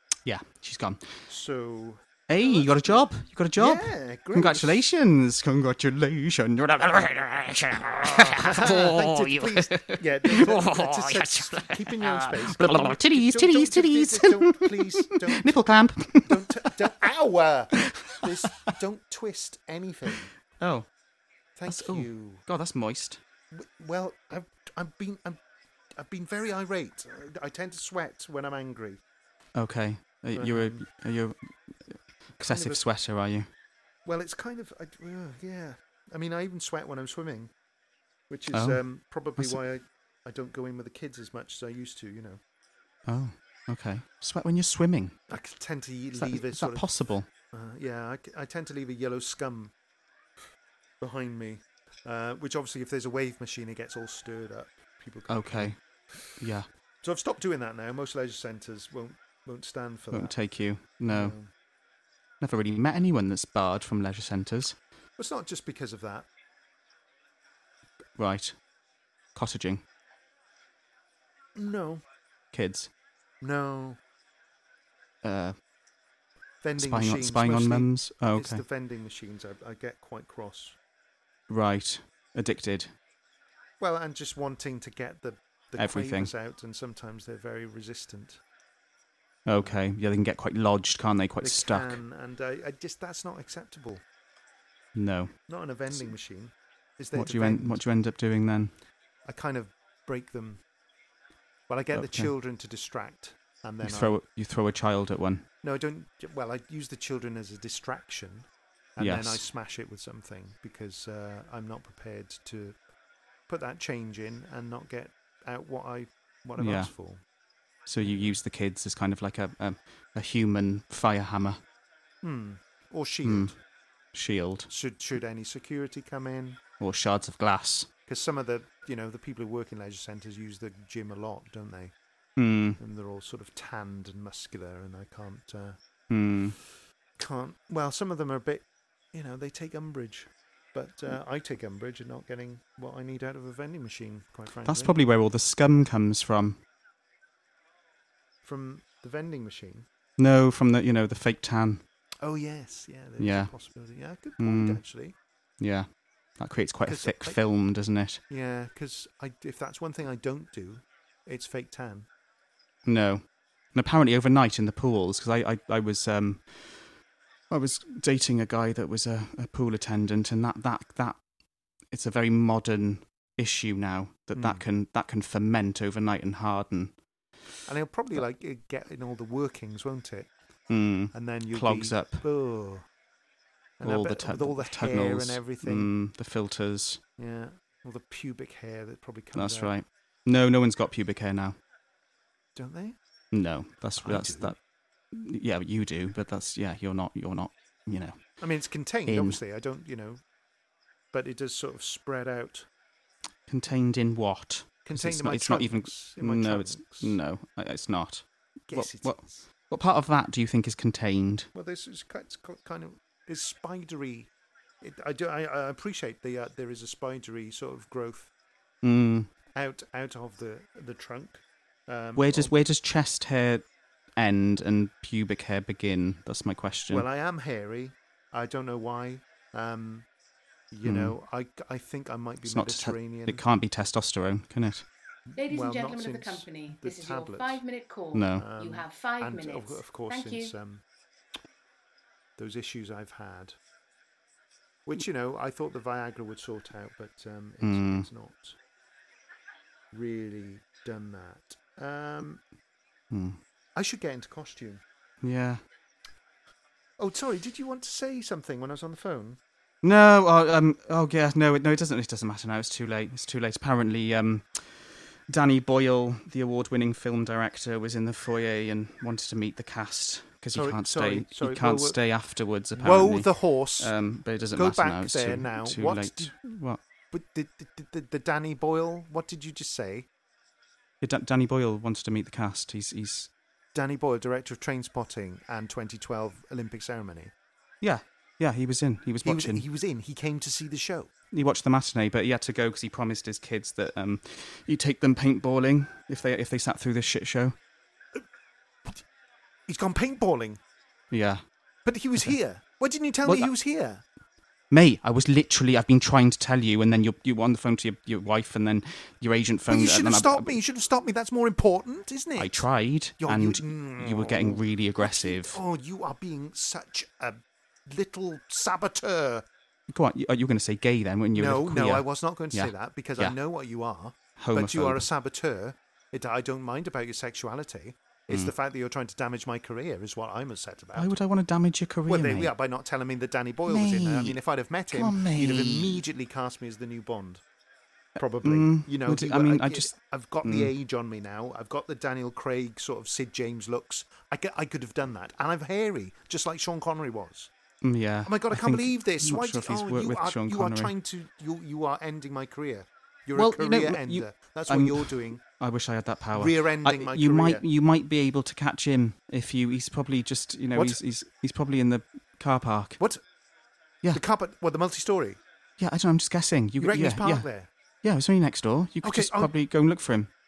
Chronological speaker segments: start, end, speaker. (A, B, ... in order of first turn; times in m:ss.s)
0:00.2-0:01.0 A
0:01.3-0:04.8 B
0:02.3-0:16.7 A
0:08.0-0:15.6 B
0:16.2-0:20.3 B
0:17.7-0:18.5 A
0:20.1-0:20.9 A
0:21.6-0:22.4 B
0:21.7-0:23.2 A
0:23.5-0:25.4 B
0:26.0-0:29.0 B
0:29.6-0:33.5 A
0:30.3-0:30.8 B
0:32.4-0:32.8 B
0:34.0-0:37.5 B
0:38.3-0:42.4 B
0:38.5-0:38.8 A
0:43.1-0:45.2 A
0:45.3-0:46.9 B
0:46.2-0:47.3 A
0:47.5-0:49.7 B
0:51.0-0:56.4 B
0:55.3-0:55.8 A
0:56.4-0:56.7 A
0:57.0-1:00.4 B
1:00.1-1:01.3 A
1:01.1-1:01.5 B
1:02.4-1:04.8 A
1:05.2-1:06.3 B
1:08.2-1:08.6 A
1:09.3-1:09.8 A
1:11.6-1:12.0 B
1:12.5-1:12.9 A
1:13.4-1:14.0 B
1:15.2-1:15.6 A
1:16.6-1:20.8 B
1:16.8-1:18.6 A
1:21.5-1:22.9 A
1:23.8-1:28.4 B
1:25.8-1:26.3 A
1:29.4-1:32.0 A
1:31.4-1:34.0 B
1:34.9-1:35.3 A
1:35.5-1:37.8 B
1:37.1-1:38.7 A
1:39.2-1:40.6 B
1:41.7-1:44.2 B
1:41.9-1:42.3 A
1:43.8-1:45.4 A
1:45.6-1:52.8 B
1:49.0-1:49.4 A
1:53.5-1:57.2 B
1:56.6-1:56.9 A
1:57.9-2:01.6 A
1:58.0-1:58.4 B
2:02.2-2:03.6 B
2:03.2-2:03.5 A
2:04.1-2:04.7 A
2:04.7-2:06.6 B
2:06.8-2:07.9 A
2:08.1-2:11.9 B
2:12.4-2:12.8 A
2:12.8-2:15.8 B
2:16.1-2:16.6 A
2:17.2-2:25.0 B
2:24.6-2:26.6 A
2:28.4-2:29.9 B
2:30.2-2:31.8 A
2:32.2-2:35.2 B
2:33.2-2:33.5 A
2:34.4-2:34.8 A
2:35.6-2:35.9 A
2:36.4-2:38.2 A
2:36.8-2:37.4 B
2:38.3-2:42.1 B
2:42.8-2:43.2 A
2:43.7-2:46.9 A
2:47.5-2:51.2 A
2:51.9-2:57.0 A
2:54.3-2:54.7 B
2:57.6-3:00.3 B
3:00.7-3:02.2 A
3:01.1-3:02.9 B
3:03.8-3:05.9 B
3:03.8-3:07.0 A
3:07.2-3:09.7 B
3:09.3-3:11.6 A
3:12.5-3:13.0 B
3:13.3-3:14.6 A
3:14.0-3:14.5 B
3:15.1-3:18.4 A
3:18.4-3:20.2 B
3:19.0-3:19.4 A
3:21.1-3:22.7 B
3:23.5-3:31.5 A
3:24.8-3:27.2 B
3:28.7-3:29.4 B
3:31.5-3:38.3 B
3:38.8-3:39.3 A
3:39.6-3:42.5 B
3:42.2-3:43.6 A
3:44.2-3:47.0 A
3:46.9-3:50.1 B
3:50.7-3:53.4 B
3:50.8-3:51.2 A
3:52.4-3:54.8 A
3:55.3-3:57.6 B
3:55.3-4:00.5 C
3:58.1-3:58.4 A
3:58.3-4:00.8 B
4:02.4-4:03.6 B
4:04.8-4:08.6 B
4:07.6-4:08.1 A
4:09.9-4:12.4 B
4:13.1-4:13.4 A
4:13.8-4:14.8 B
4:15.2-4:15.6 A
4:17.0-4:19.4 B
4:19.8-4:36.8 A
4:30.5-4:32.0 B
4:32.7-4:36.5 B
4:37.1-4:40.1 B
4:41.0-4:43.3 A
4:43.7-4:47.3 B
4:47.8-4:49.6 A
4:49.2-4:51.1 B
4:51.3-4:57.6 A
4:59.7-5:00.6 B
5:01.1-5:01.4 A
5:01.8-5:04.0 B
5:03.2-5:03.5 A
5:04.7-5:10.6 A
5:09.7-5:12.6 B
5:12.4-5:15.6 A
5:13.2-5:19.4 B
5:19.9-5:23.4 A
5:21.3-5:31.2 B
5:24.4-5:25.1 A
5:30.9-5:32.5 A
5:32.1-5:37.4 B
5:33.7-5:36.0 A
5:38.2-5:47.5 B
5:38.4-5:39.9 A
5:40.4-5:40.7 A
5:47.8-5:50.9 A
5:48.2-5:55.4 B
5:53.3-6:03.0 A
5:56.3-5:57.6 B
6:00.7-6:01.0 B
6:04.1-6:05.4 B
6:05.8-6:07.5 A
6:06.8-6:07.7 B
6:08.0-6:10.3 A
6:09.0-6:09.5 B